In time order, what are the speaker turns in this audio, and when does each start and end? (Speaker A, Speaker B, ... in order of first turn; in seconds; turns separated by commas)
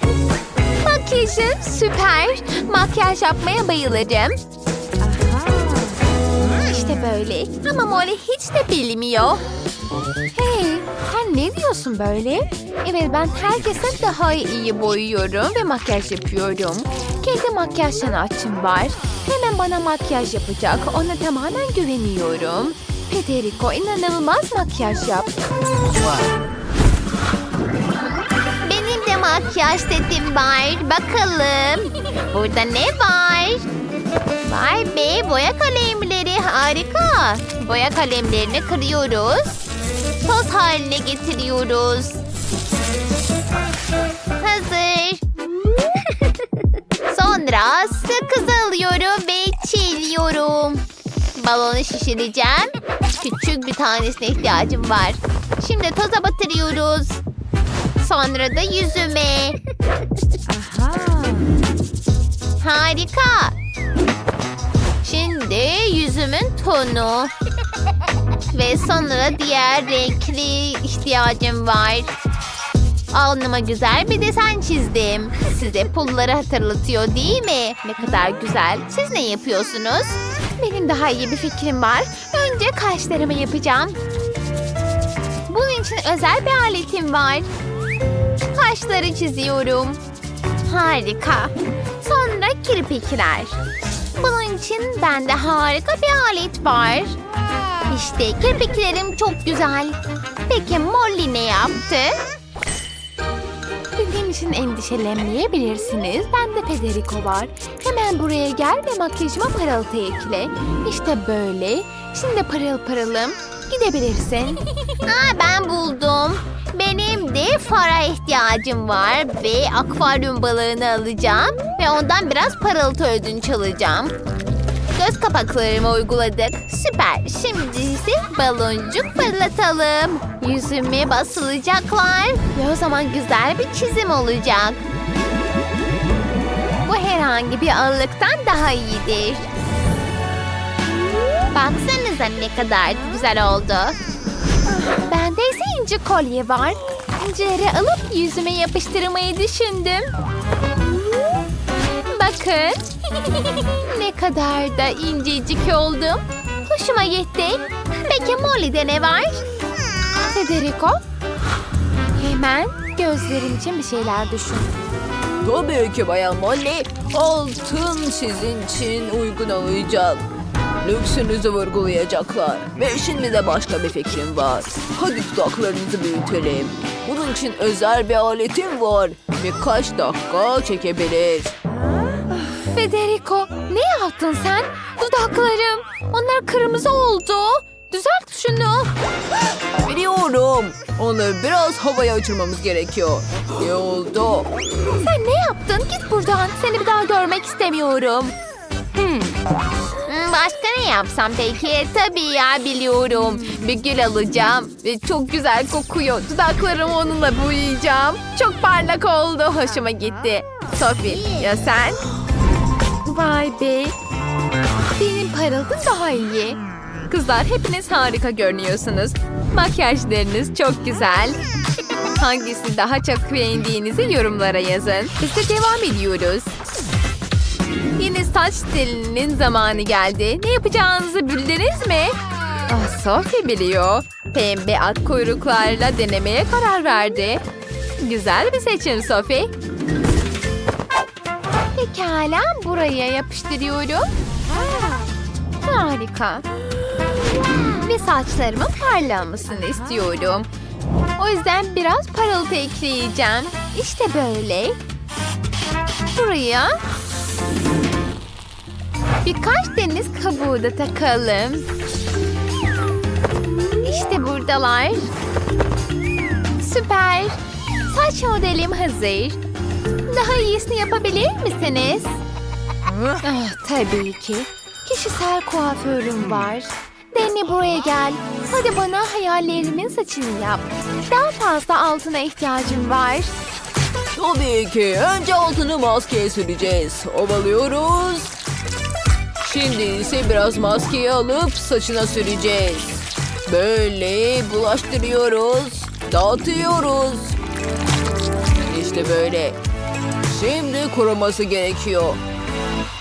Speaker A: 0.8-4.4, Speaker A: 5.4-5.7, Speaker A: 6.4-9.4, Speaker A: 10.3-25.3, Speaker A: 28.6-33.7, Speaker A: 34.4-39.6, Speaker A: 40.2-42.2, Speaker A: 44.4-45.2, Speaker A: 47.1-50.8, Speaker A: 51.3-57.2, Speaker A: 58.0-59.6, Speaker A: 60.5-61.5, Speaker A: 62.6-63.5, Speaker A: 65.0-67.3, Speaker A: 68.5-72.1, Speaker A: 73.1-84.0, Speaker A: 85.5-87.5, Speaker A: 88.5-90.0, Speaker A: 90.6-93.6, Speaker A: 94.2-97.2, Speaker A: 97.9-102.2, Speaker A: 104.0-124.1, Speaker A: 124.9-134.8, Speaker A: 136.8-139.5, Speaker A: 141.5-144.0, Speaker A: 144.8-150.1, Speaker A: 152.1-159.4, Speaker A: 160.3-161.0, Speaker A: 162.2-164.8, Speaker B: 165.4-170.2, Speaker A: 166.6-170.2, Speaker B: 170.8-174.7, Speaker A: 170.8-181.5, Speaker B: 175.3-181.4, Speaker A: 182.3-188.9, Speaker B: 189.9-194.4, Speaker A: 192.1-192.5, Speaker A: 193.6-198.3, Speaker A: 198.9-199.4, Speaker A: 200.1-212.0, Speaker A: 213.0-213.9, Speaker A: 214.9-221.4, Speaker A: 222.2-226.6, Speaker A: 228.0-232.2, Speaker A: 232.7-237.4, Speaker A: 238.0-239.5, Speaker A: 241.8-244.1, Speaker A: 245.6-246.4, Speaker A: 247.8-250.5, Speaker A: 251.2-254.8, Speaker A: 256.1-256.8, Speaker A: 259.2-261.7, Speaker A: 263.8-265.1, Speaker A: 266.6-269.4, Speaker A: 270.1-272.2, Speaker A: 273.2-283.4, Speaker B: 284.1-288.3, Speaker A: 287.7-288.1, Speaker B: 289.4-292.9, Speaker A: 289.5-292.9, Speaker A: 293.5-297.3, Speaker B: 293.5-297.3, Speaker A: 298.7-299.6, Speaker B: 298.7-299.5, Speaker A: 300.3-302.2, Speaker B: 300.3-302.2